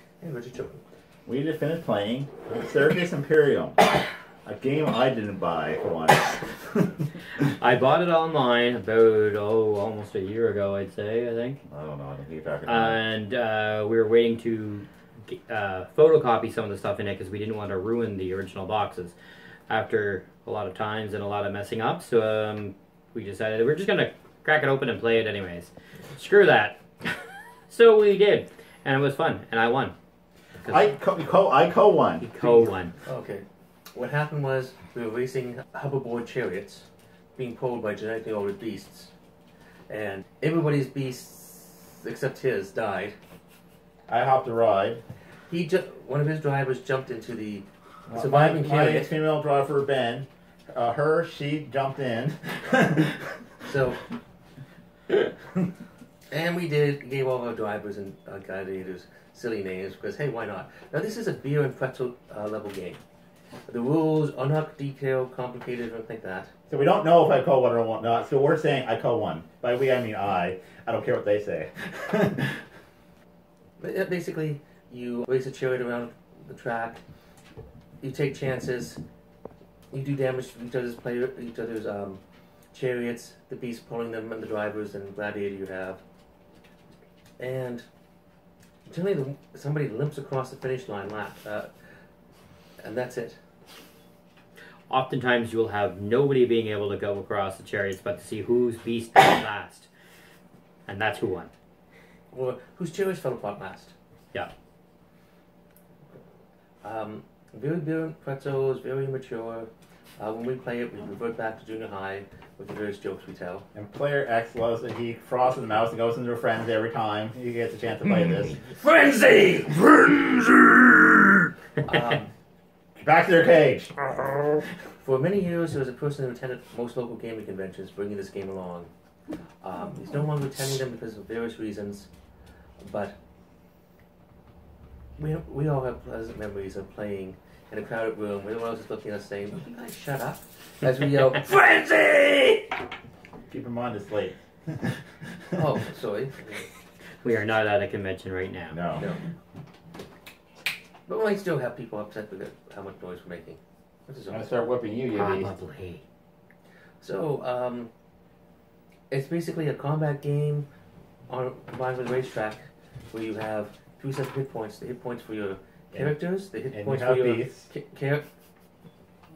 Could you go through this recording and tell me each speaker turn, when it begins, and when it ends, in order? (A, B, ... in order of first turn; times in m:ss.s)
0:00.2-0:00.8 A
0:01.2-0:03.8 B
0:04.4-0:07.0 B
0:07.4-0:11.6 C
0:11.7-0:13.0 B
0:12.7-0:19.1 C
0:19.7-0:29.9 C
0:30.7-0:32.3 B
0:32.2-0:33.0 C
0:32.4-0:39.1 A
0:39.9-0:43.2 A
0:44.1-0:45.0 B
0:45.5-0:49.1 A
0:48.1-0:53.4 B
0:53.7-0:54.0 A
0:56.3-1:03.0 A
1:03.7-1:06.5 A
1:06.7-1:12.6 B
1:13.8-1:17.0 A
1:18.0-1:19.0 A
1:19.9-1:22.2 A
1:22.7-1:26.0 A
1:27.4-1:27.8 A
1:28.9-1:31.7 A
1:32.8-1:33.4 A
1:34.9-1:39.9 C
1:40.9-1:41.5 C
1:42.3-1:43.9 A
1:46.8-1:53.7 A
1:53.7-1:58.6 B
1:58.5-2:00.4 A
2:01.8-2:02.3 A
2:03.0-2:04.1 B
2:05.0-2:08.9 A
2:09.6-2:12.1 A
2:12.8-2:13.2 A
2:15.2-2:22.8 A
2:23.5-2:25.6 B
2:25.5-2:26.7 A
2:27.2-2:28.8 C
2:28.7-2:29.1 B
2:31.1-2:34.6 A
2:34.3-2:35.5 B
2:35.1-2:36.0 C
2:37.0-2:37.9 A
2:39.1-2:40.7 A
2:41.3-2:48.2 A
2:46.7-2:47.7 B